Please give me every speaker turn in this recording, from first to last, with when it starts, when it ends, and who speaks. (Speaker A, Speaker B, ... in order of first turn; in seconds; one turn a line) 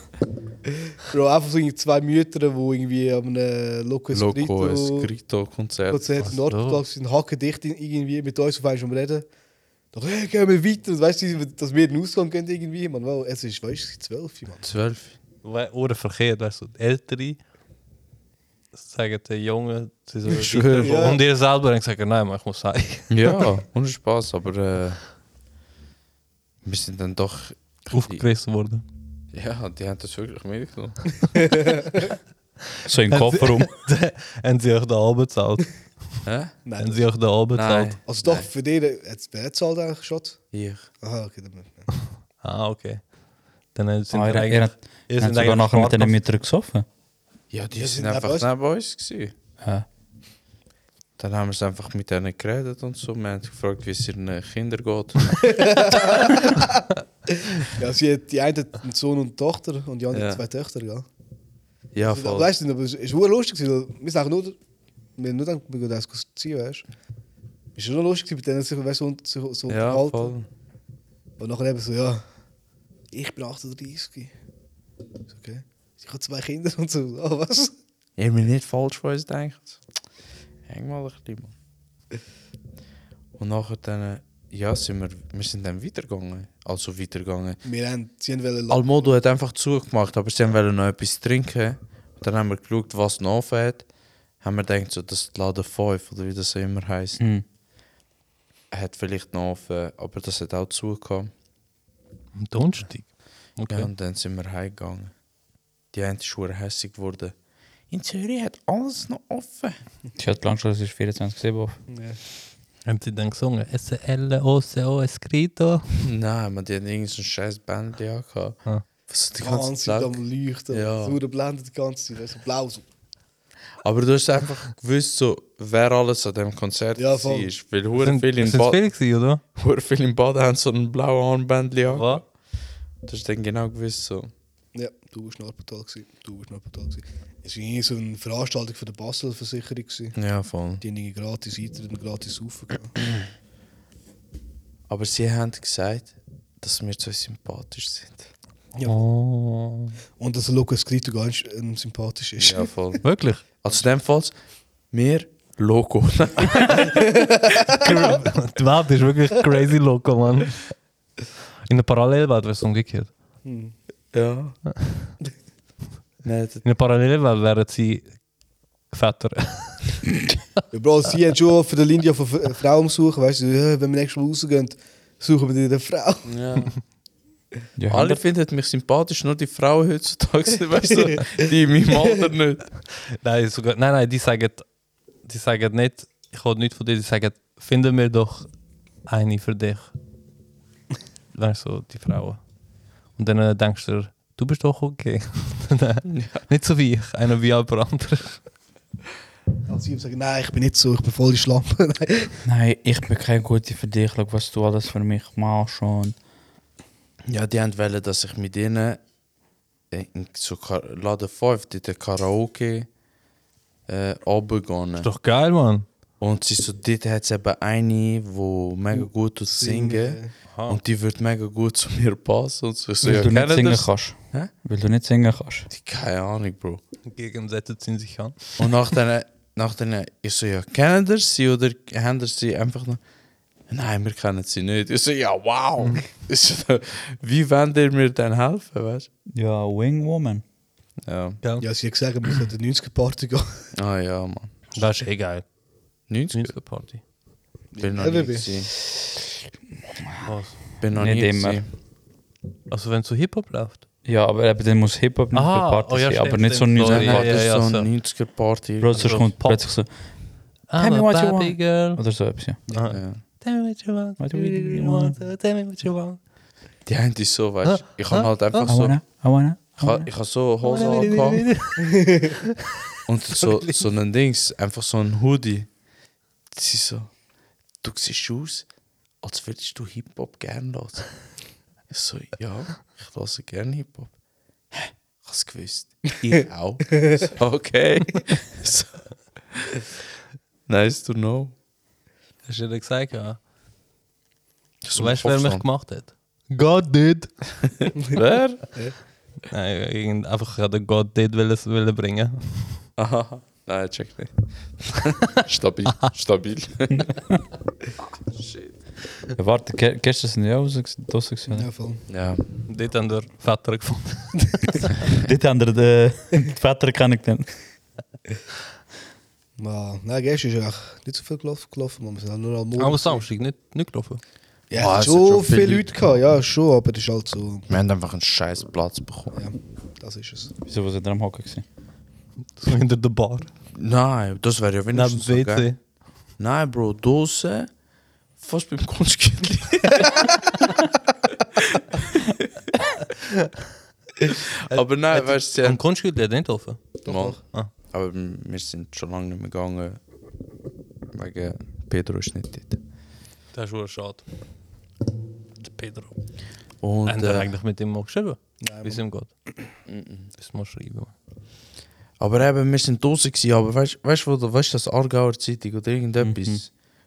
Speaker A: 0.9-5.1
Speaker B: 4.1-6.1
Speaker A: 5.9-9.3
Speaker C: 6.2-6.8
Speaker A: 9.9-14.6
Speaker B: 14.6-15.2
Speaker C: 15.4-17.4
Speaker C: 18.7-23.5
Speaker B: 20.3-21.1
Speaker A: 20.8-21.2
Speaker B: 23.1-25.1
Speaker B: 26.6-28.2
Speaker C: 27.9-28.8
Speaker B: 29.3-31.6
Speaker A: 31.3-32.0
Speaker D: 32.8-33.7
Speaker C: 33.1-35.8
Speaker B: 36.2-36.5
Speaker A: 36.6-37.1
Speaker C: 36.8-38.0
Speaker B: 37.5-38.5
Speaker A: 38.0-40.5
Speaker B: 40.5-40.9
Speaker A: 41.0-41.9
Speaker C: 42.4-43.1
Speaker C: 43.7-46.1
Speaker D: 44.1-46.9
Speaker B: 47.5-49.3
Speaker A: 47.8-48.5
Speaker D: 49.6-49.9
Speaker B: 51.2-56.0
Speaker A: 55.4-56.8
Speaker A: 57.6-61.1
Speaker B: 60.1-60.4
Speaker B: 61.9-62.5
Speaker A: 62.0-64.6
Speaker A: 65.2-66.8
Speaker A: 67.7-70.3
Speaker B: 69.7-70.5
Speaker A: 71.4-72.2
Speaker A: 73.1-74.3
Speaker A: 75.3-77.7
Speaker B: 78.2-79.8
Speaker B: 80.7-81.5
Speaker B: 83.4-87.6
Speaker A: 87.6-89.1
Speaker B: 88.7-97.2
Speaker D: 97.2-97.4
Speaker B: 98.7-101.3
Speaker C: 102.3-103.9
Speaker B: 103.7-105.1
Speaker B: 105.9-107.3
Speaker B: 107.9-109.8
Speaker D: 110.2-111.8
Speaker A: 111.9-112.2
Speaker C: 112.8-115.8
Speaker B: 116.0-120.2
Speaker A: 119.4-122.8
Speaker B: 120.7-121.2
Speaker B: 123.8-128.8
Speaker A: 127.0-127.5
Speaker C: 128.0-129.4
Speaker B: 129.6-132.3
Speaker C: 131.9-132.2
Speaker B: 133.0-134.3
Speaker A: 134.7-140.2
Speaker B: 140.1-140.8
Speaker A: 140.8-143.0
Speaker B: 144.9-148.3
Speaker A: 148.7-149.0
Speaker C: 148.8-150.0
Speaker A: 150.2-152.7
Speaker B: 152.4-154.3
Speaker C: 153.0-153.4
Speaker B: 154.9-157.0
Speaker A: 156.9-157.8
Speaker C: 157.7-160.7
Speaker C: 161.7-163.1
Speaker A: 163.4-163.7
Speaker B: 164.1-164.6
Speaker B: 166.2-166.6
Speaker C: 166.6-168.2
Speaker C: 168.9-170.1
Speaker A: 170.7-176.3
Speaker B: 176.2-176.8
Speaker D: 177.8-178.2
Speaker B: 177.9-182.7
Speaker C: 183.1-184.7
Speaker C: 185.2-188.5
Speaker C: 189.1-189.9
Speaker C: 191.3-192.4
Speaker C: 193.1-198.4
Speaker B: 196.1-196.4
Speaker A: 199.7-202.3
Speaker D: 202.4-206.2
Speaker B: 207.3-209.0
Speaker B: 209.9-212.9
Speaker B: 213.9-215.1
Speaker C: 215.0-215.8
Speaker B: 216.2-224.5
Speaker A: 219.4-220.3
Speaker C: 220.5-220.8
Speaker D: 223.0-225.7
Speaker B: 225.7-226.8
Speaker C: 227.1-228.7
Speaker B: 228.6-233.0
Speaker B: 233.7-239.1
Speaker D: 239.3-240.4
Speaker B: 241.0-241.4
Speaker A: 241.6-243.7
Speaker B: 243.7-244.7
Speaker C: 244.7-245.4
Speaker B: 246.1-246.5
Speaker C: 246.3-247.0
Speaker A: 247.7-248.5
Speaker B: 247.8-248.8
Speaker C: 250.2-250.6
Speaker B: 250.8-251.7
Speaker D: 250.9-251.6
Speaker C: 252.7-253.8
Speaker D: 254.0-257.4
Speaker C: 255.3-257.9
Speaker B: 256.9-259.1
Speaker D: 258.8-259.9
Speaker C: 258.9-259.8
Speaker C: 260.7-262.0
Speaker D: 260.8-262.6
Speaker C: 262.7-266.2
Speaker B: 262.9-263.2
Speaker D: 264.2-265.2
Speaker B: 266.9-269.0
Speaker C: 267.6-268.6
Speaker D: 268.7-270.1
Speaker B: 269.8-271.6
Speaker C: 270.6-272.5
Speaker B: 273.1-275.7
Speaker C: 273.3-273.8
Speaker B: 276.5-277.1
Speaker B: 277.8-278.7
Speaker B: 279.2-281.2
Speaker B: 281.9-284.1
Speaker B: 284.7-289.8
Speaker A: 287.0-287.3
Speaker B: 290.7-291.5
Speaker C: 292.4-293.4
Speaker B: 294.8-295.6
Speaker C: 294.9-297.3
Speaker B: 297.6-298.8
Speaker C: 299.5-302.8
Speaker B: 303.0-307.2
Speaker B: 308.3-308.7
Speaker D: 309.3-311.7
Speaker A: 311.5-312.1
Speaker B: 312.1-312.5
Speaker C: 312.7-314.9
Speaker D: 315.1-317.5
Speaker A: 319.6-323.2
Speaker C: 322.8-324.2
Speaker A: 324.7-327.7
Speaker B: 324.7-325.9
Speaker B: 327.7-329.4
Speaker A: 329.3-330.5
Speaker D: 330.6-331.6
Speaker C: 332.6-333.5
Speaker B: 333.7-335.7
Speaker C: 334.9-335.8
Speaker B: 336.4-337.7
Speaker B: 338.4-340.7
Speaker B: 341.6-342.3
Speaker B: 344.3-345.8
Speaker C: 344.7-347.7
Speaker A: 347.0-347.4
Speaker B: 347.1-350.0
Speaker B: 351.1-352.8
Speaker C: 353.5-354.2
Speaker C: 355.6-356.1
Speaker B: 356.8-357.5
Speaker C: 357.0-359.3
Speaker A: 358.6-359.0
Speaker B: 359.9-360.3
Speaker C: 360.4-361.1
Speaker B: 362.2-366.7
Speaker D: 366.3-366.6